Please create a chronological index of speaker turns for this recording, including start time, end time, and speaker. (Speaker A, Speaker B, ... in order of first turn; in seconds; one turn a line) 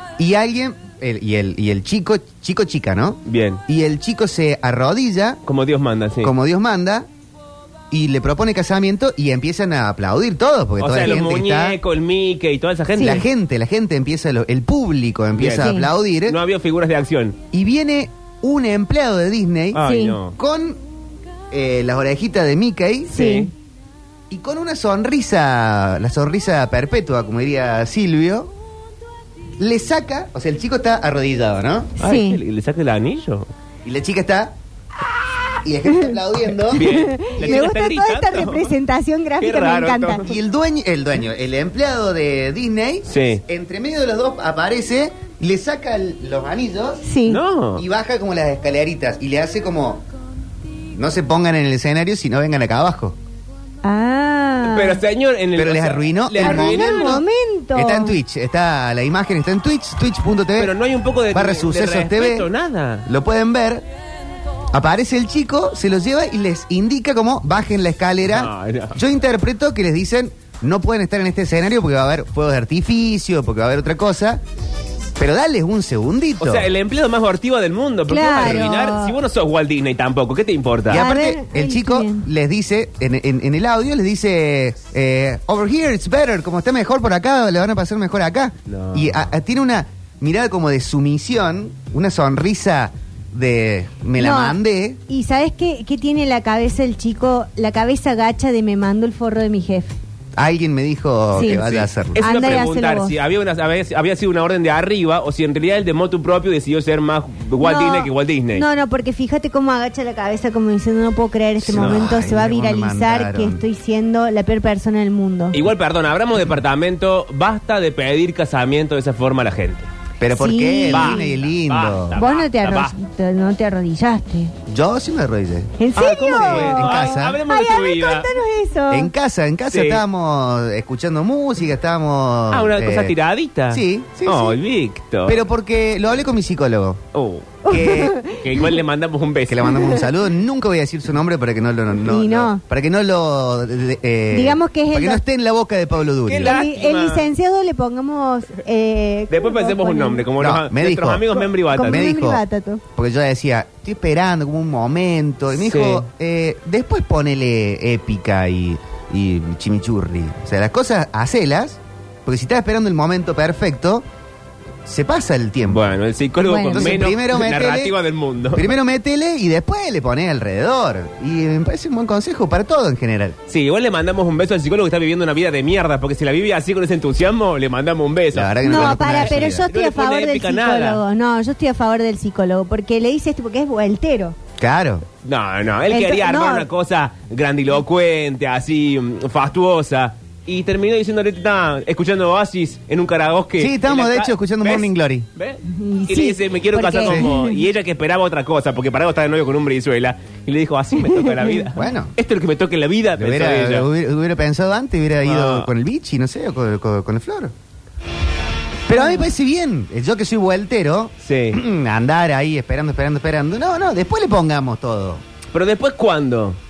Speaker A: 0.2-5.4
Speaker B: 3.3-3.6
Speaker B: 5.5-6.3
Speaker A: 6.2-7.1
Speaker A: 7.9-11.8
Speaker B: 10.8-13.2
Speaker A: 13.0-16.4
Speaker B: 15.3-17.4
Speaker C: 15.6-15.9
Speaker A: 17.5-20.8
Speaker B: 19.7-20.4
Speaker C: 19.8-20.2
Speaker A: 21.5-23.2
Speaker C: 23.1-23.5
Speaker B: 23.1-23.5
Speaker A: 24.3-28.5
Speaker A: 29.6-31.9
Speaker C: 32.0-32.4
Speaker B: 32.0-33.5
Speaker A: 33.8-34.5
Speaker A: 35.6-37.7
Speaker C: 36.7-40.2
Speaker B: 36.7-38.7
Speaker B: 39.4-40.3
Speaker A: 40.2-47.0
Speaker B: 43.1-43.4
Speaker C: 47.0-47.4
Speaker B: 47.3-47.8
Speaker A: 47.8-50.0
Speaker A: 50.9-53.1
Speaker C: 53.8-55.0
Speaker B: 54.6-57.2
Speaker A: 55.5-60.7
Speaker C: 56.4-58.2
Speaker B: 60.6-63.0
Speaker A: 61.3-62.5
Speaker A: 63.0-63.8
Speaker A: 64.7-74.4
Speaker B: 68.3-69.0
Speaker A: 75.2-76.7
Speaker B: 76.4-81.1
Speaker C: 78.1-79.1
Speaker A: 78.4-78.7
Speaker A: 80.9-95.0
Speaker C: 80.9-82.2
Speaker B: 88.7-89.2
Speaker C: 94.2-100.0
Speaker A: 100.3-102.2
Speaker C: 101.3-101.6
Speaker B: 101.4-108.6
Speaker C: 102.2-103.1
Speaker C: 107.6-115.6
Speaker A: 111.6-113.6
Speaker B: 111.7-112.1
Speaker B: 115.5-119.9
Speaker A: 120.2-122.2
Speaker C: 120.3-121.3
Speaker B: 120.9-122.9
Speaker C: 122.1-124.5
Speaker A: 124.7-127.4
Speaker C: 125.8-129.1
Speaker B: 126.0-128.3
Speaker A: 128.9-133.1
Speaker B: 129.7-130.0
Speaker B: 132.5-135.4
Speaker A: 133.7-134.6
Speaker A: 135.2-137.0
Speaker B: 137.1-137.6
Speaker C: 137.6-138.7
Speaker A: 137.7-138.2
Speaker B: 138.4-139.8
Speaker A: 139.5-146.6
Speaker C: 139.7-140.0
Speaker C: 142.0-142.6
Speaker C: 144.3-145.2
Speaker B: 146.2-147.3
Speaker C: 146.4-150.2
Speaker B: 149.3-152.1
Speaker A: 150.4-152.4
Speaker C: 151.4-152.8
Speaker A: 152.9-164.0
Speaker B: 155.6-156.1
Speaker A: 164.8-165.8
Speaker B: 165.7-168.7
Speaker C: 166.4-167.1
Speaker A: 166.6-167.9
Speaker A: 168.5-173.4
Speaker B: 173.5-181.0
Speaker A: 178.3-179.7
Speaker C: 178.6-184.4
Speaker A: 184.6-185.1
Speaker B: 185.2-203.9
Speaker C: 185.9-186.7
Speaker A: 193.6-195.3
Speaker C: 195.6-197.6
Speaker A: 197.0-197.3
Speaker A: 201.7-202.1
Speaker A: 203.2-207.5
Speaker B: 205.2-205.7
Speaker A: 208.9-215.2
Speaker B: 211.2-211.6
Speaker B: 215.5-216.6